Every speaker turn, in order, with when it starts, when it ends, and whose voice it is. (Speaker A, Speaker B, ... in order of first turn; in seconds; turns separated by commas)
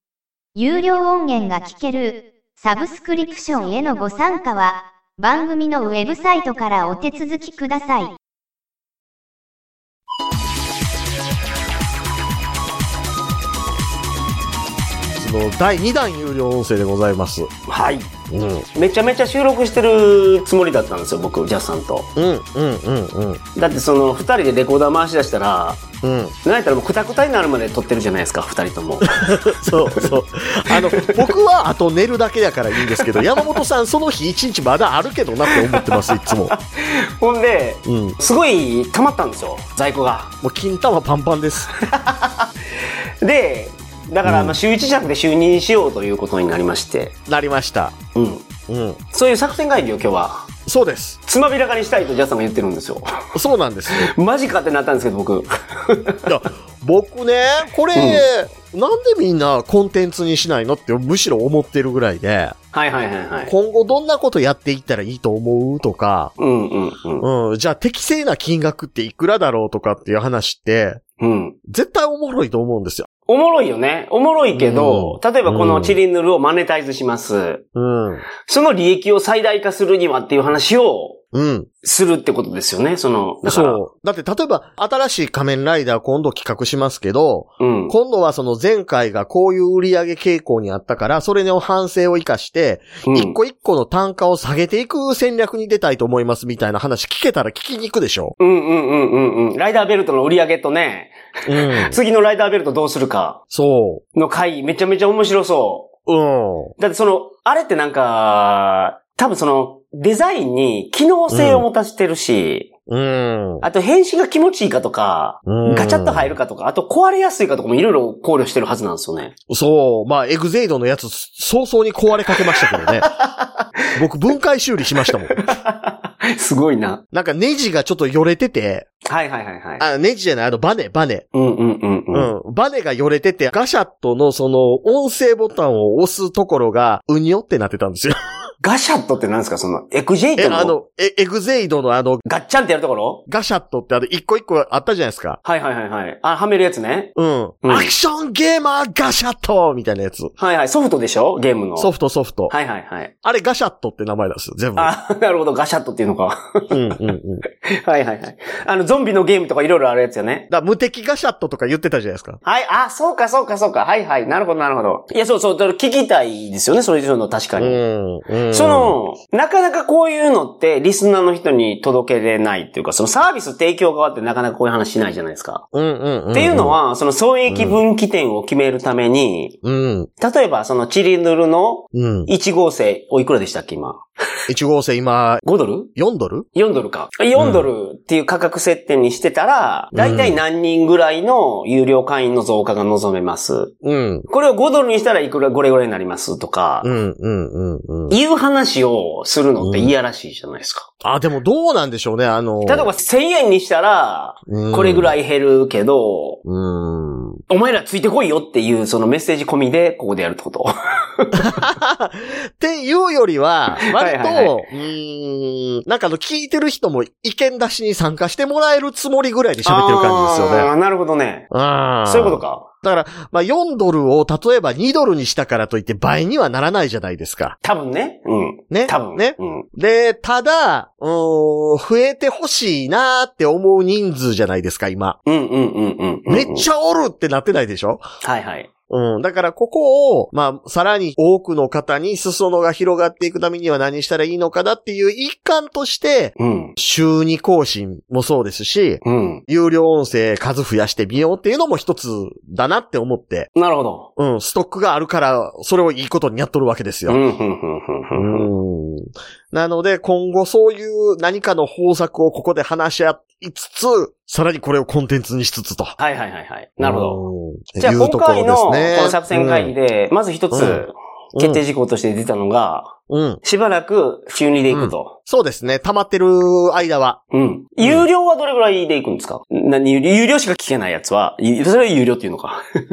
Speaker A: 0.5-8.1, Speaker B: 15.2-17.5, Speaker C: 17.7-18.1, Speaker B: 18.3-18.7, Speaker C: 18.8-22.1, Speaker B: 22.1-23.4, Speaker C: 23.6-25.8, Speaker B: 26.0-26.3, Speaker C: 26.4-29.1, Speaker B: 29.0-36.5, Speaker C: 29.7-30.1, Speaker C: 30.7-31.2, Speaker C: 33.0-33.6, Speaker C: 35.8-36.6, Speaker C: 37.2-40.3, Speaker B: 37.8-38.2, Speaker B: 40.4-41.7, Speaker C: 41.9-42.5, Speaker C: 43.2-47.1, Speaker B: 44.2-44.6, Speaker B: 47.3-48.0, Speaker C: 48.1-48.5, Speaker B: 48.7-49.0, Speaker C: 49.1-50.5, Speaker B: 50.6-51.2, Speaker C: 51.2-53.0, Speaker B: 53.3-54.1, Speaker C: 53.9-56.2, Speaker B: 56.2-62.6, Speaker C: 57.9-58.3, Speaker C: 62.7-63.5, Speaker B: 63.5-66.3, Speaker C: 66.4-67.3, Speaker B: 67.2-71.0, Speaker C: 71.2-71.5, Speaker B: 71.7-73.1, Speaker C: 73.3-77.6, Speaker B: 74.5-76.0, Speaker B: 77.8-78.2, Speaker C: 78.4-81.2, Speaker B: 81.3-81.7, Speaker C: 81.8-83.8, Speaker B: 83.4-98.3, Speaker C: 87.6-87.9, Speaker C: 93.1-93.4, Speaker C: 98.4-103.4, Speaker B: 101.5-102.0, Speaker B: 103.5-104.0, Speaker C: 104.1-105.9, Speaker B: 106.1-106.7, Speaker C: 106.8-112.7, Speaker B: 111.3-111.7, Speaker B: 112.9-113.6, Speaker C: 113.6-119.3, Speaker B: 115.5-116.3, Speaker B: 119.5-123.1, Speaker C: 122.4-123.5, Speaker B: 123.9-125.4, Speaker C: 125.1-127.0, Speaker B: 127.1-128.9, Speaker C: 129.1-129.8, Speaker B: 129.8-131.2, Speaker C: 131.3-132.3, Speaker B: 132.1-138.2, Speaker C: 138.6-140.7, Speaker B: 140.4-142.2, Speaker C: 142.2-143.2, Speaker B: 143.3-145.4, Speaker C: 145.4-147.1, Speaker B: 147.2-150.3, Speaker C: 147.6-147.9, Speaker C: 150.4-151.9, Speaker B: 151.8-152.5, Speaker C: 152.5-153.1, Speaker B: 153.2-154.9, Speaker C: 154.8-156.8, Speaker B: 156.7-157.4, Speaker C: 157.8-160.5, Speaker B: 160.5-162.4, Speaker C: 162.4-167.8, Speaker B: 167.6-169.0, Speaker C: 168.5-175.6, Speaker B: 175.7-176.8, Speaker C: 176.3-179.6, Speaker B: 177.5-177.8, Speaker B: 179.6-180.1, Speaker C: 180.2-184.0, Speaker B: 181.9-182.3, Speaker B: 184.5-186.5, Speaker C: 185.4-185.9, Speaker C: 186.5-193.7, Speaker B: 187.3-187.7, Speaker B: 189.9-190.4, Speaker B: 193.8-194.3, Speaker C: 194.3-196.9, Speaker B: 196.8-198.2, Speaker C: 198.1-200.9, Speaker B: 199.6-199.9, Speaker B: 201.0-202.9, Speaker C: 202.6-206.4, Speaker B: 204.5-205.1, Speaker B: 206.4-207.4, Speaker C: 207.5-211.5, Speaker B: 211.3-220.7, Speaker C: 213.9-214.6, Speaker C: 219.6-221.5, Speaker B: 221.5-227.6, Speaker C: 222.0-222.7, Speaker C: 227.6-229.6, Speaker B: 228.7-235.2, Speaker C: 235.2-236.7, Speaker B: 236.3-238.1, Speaker C: 238.2-238.7, Speaker B: 238.9-253.5, Speaker C: 246.4-246.7, Speaker C: 249.0-249.4, Speaker C: 253.5-254.1, Speaker B: 254.2-257.2, Speaker C: 257.1-258.5, Speaker B: 258.1-266.0, Speaker C: 266.0-267.2, Speaker B: 266.8-269.7, Speaker C: 267.8-275.1, Speaker B: 270.5-271.6, Speaker B: 273.1-273.4, Speaker B: 274.7-277.2, Speaker C: 277.3-282.6, Speaker B: 277.8-278.1